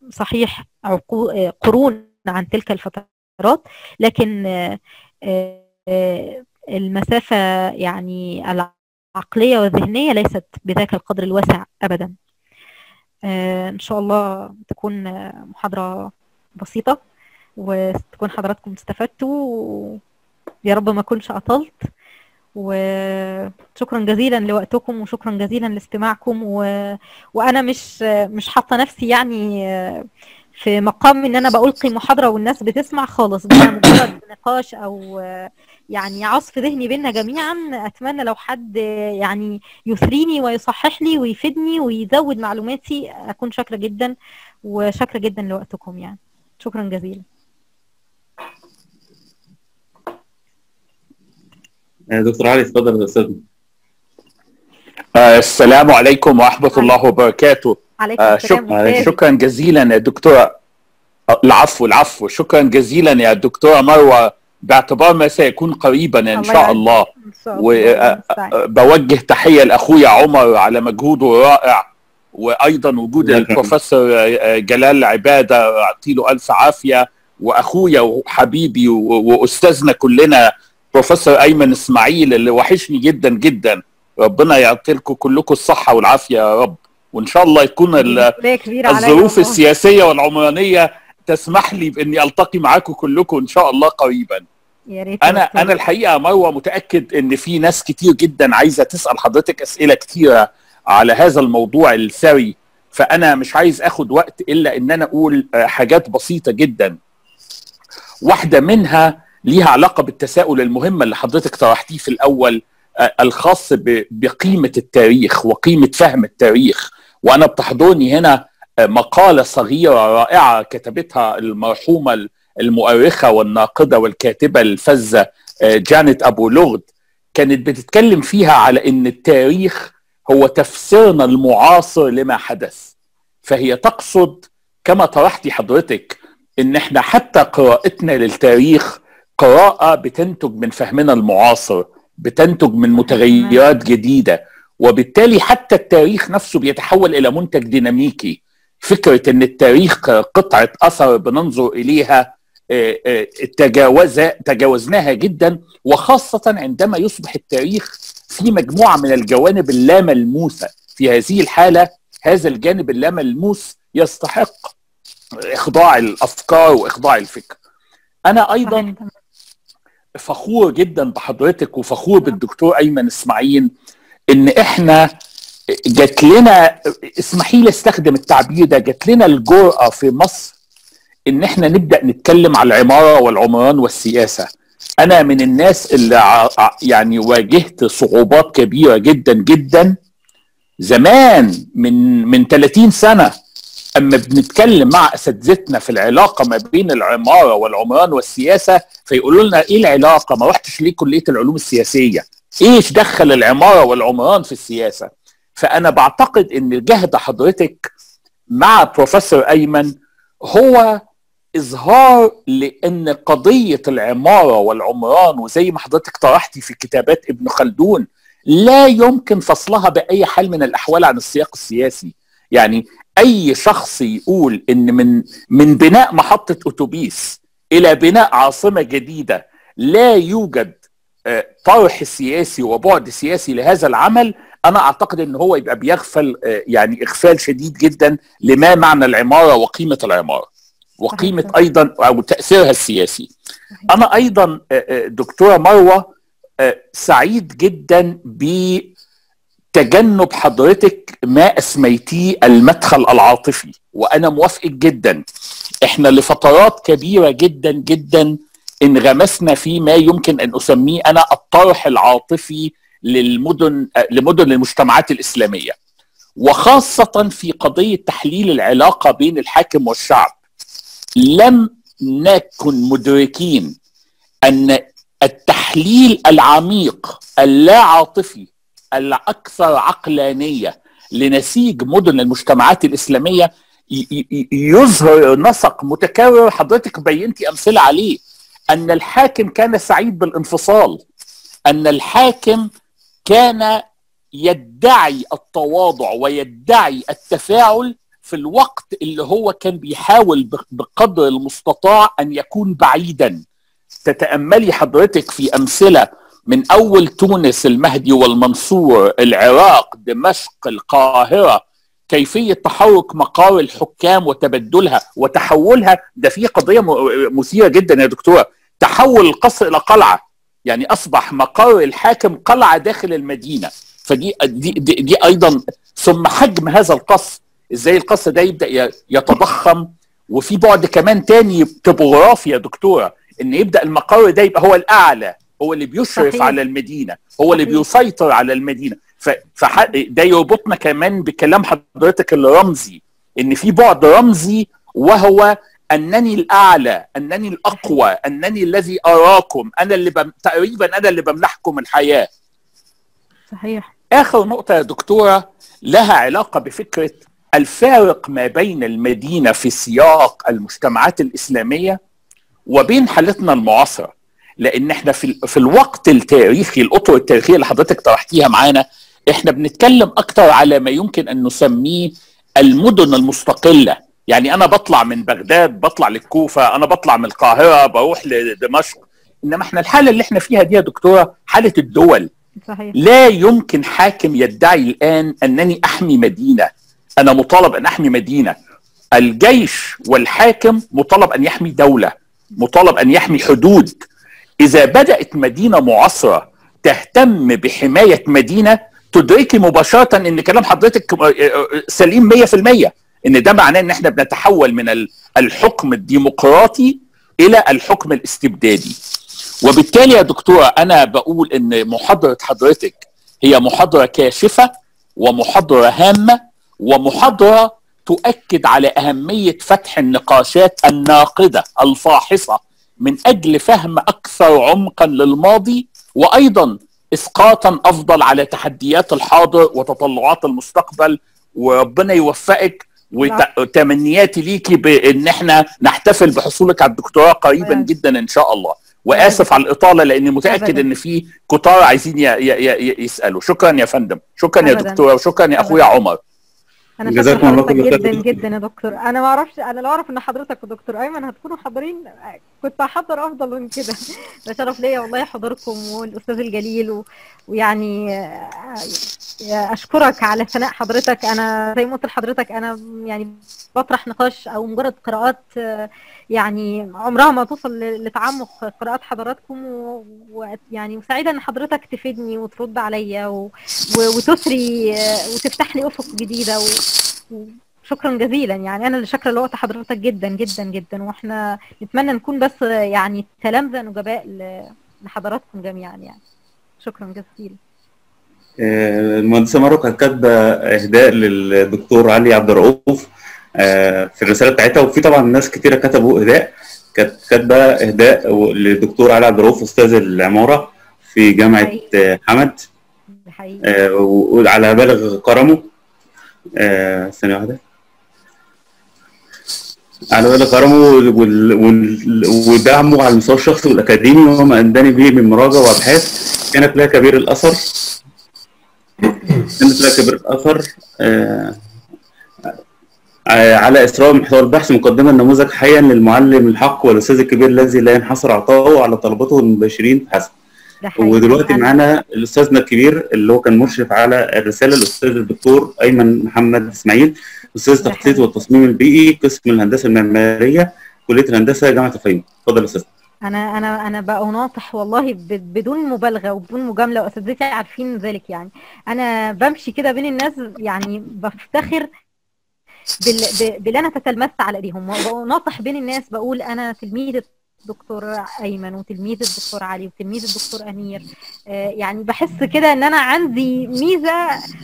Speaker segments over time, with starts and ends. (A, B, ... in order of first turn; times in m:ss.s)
0:00.2-0:04.8 A
0:05.3-0:12.1 A
0:13.3-0:17.0 A
0:17.6-0:20.0 A
0:20.6-0:21.9 A
0:22.6-0:30.0 A
0:30.6-0:44.1 A
0:44.6-0:47.2 A
0:52.1-0:53.4 B
0:55.1-1:00.5 C
0:58.0-0:59.1 A
0:58.7-0:59.0 B
1:01.4-1:28.3 C
1:06.4-1:08.6 A
1:13.2-1:13.7 B
1:28.0-1:29.6 A
1:28.9-1:34.4 C
1:34.9-1:35.8 A
1:35.2-1:47.0 C
1:48.2-2:12.9 C
2:13.4-2:44.7 C
2:23.0-2:23.6 A
2:45.5-2:47.6 C
2:48.3-2:48.9 C
2:48.6-2:49.1 A
2:50.2-2:53.7 C
2:54.3-2:55.0 C
2:55.9-3:00.5 C
3:01.3-3:04.5 C
3:05.0-3:09.9 C
3:10.8-3:13.3 C
3:14.0-3:27.9 C
3:28.5-3:29.9 C
3:30.5-3:31.0 C
3:31.6-3:50.8 C
3:51.3-4:00.4 C
4:01.0-4:03.3 C
4:01.1-4:01.5 A
4:03.9-4:06.0 C
4:06.6-4:08.9 C
4:09.7-4:15.2 C
4:15.8-4:18.3 C
4:18.8-4:25.7 C
4:26.4-4:30.4 C
4:31.2-4:33.7 C
4:34.4-4:48.2 C
4:48.7-4:51.0 C
4:51.7-4:52.7 C
4:53.3-4:53.8 C
4:54.4-5:03.4 C
5:04.0-5:52.3 C
5:36.2-5:36.6 A
5:37.6-5:37.8 A
5:53.5-5:53.9 A
5:54.1-6:02.0 C
6:02.7-6:22.3 C
6:22.6-6:23.0 A
6:22.9-6:26.7 C
6:27.2-6:28.6 C
6:29.2-6:34.0 C
6:34.6-6:48.9 C
6:49.6-7:26.2 C
7:17.6-7:17.9 A
7:19.1-7:19.5 A
7:20.5-7:20.8 A
7:24.6-7:25.0 A
7:27.0-7:39.0 A
7:27.0-7:28.4 B
7:39.5-7:56.8 A
7:57.3-8:06.2 A
8:06.8-8:07.6 A
8:08.6-8:22.6 B
8:23.2-8:23.6 A
8:23.6-8:25.7 B
8:26.6-8:27.6 B
8:30.1-8:37.6 B
8:39.4-8:41.6 B
8:43.3-8:50.3 B
8:50.8-8:51.7 A
8:51.0-9:02.8 B
8:57.8-8:58.3 A
9:03.2-9:11.9 A
9:13.0-9:24.2 A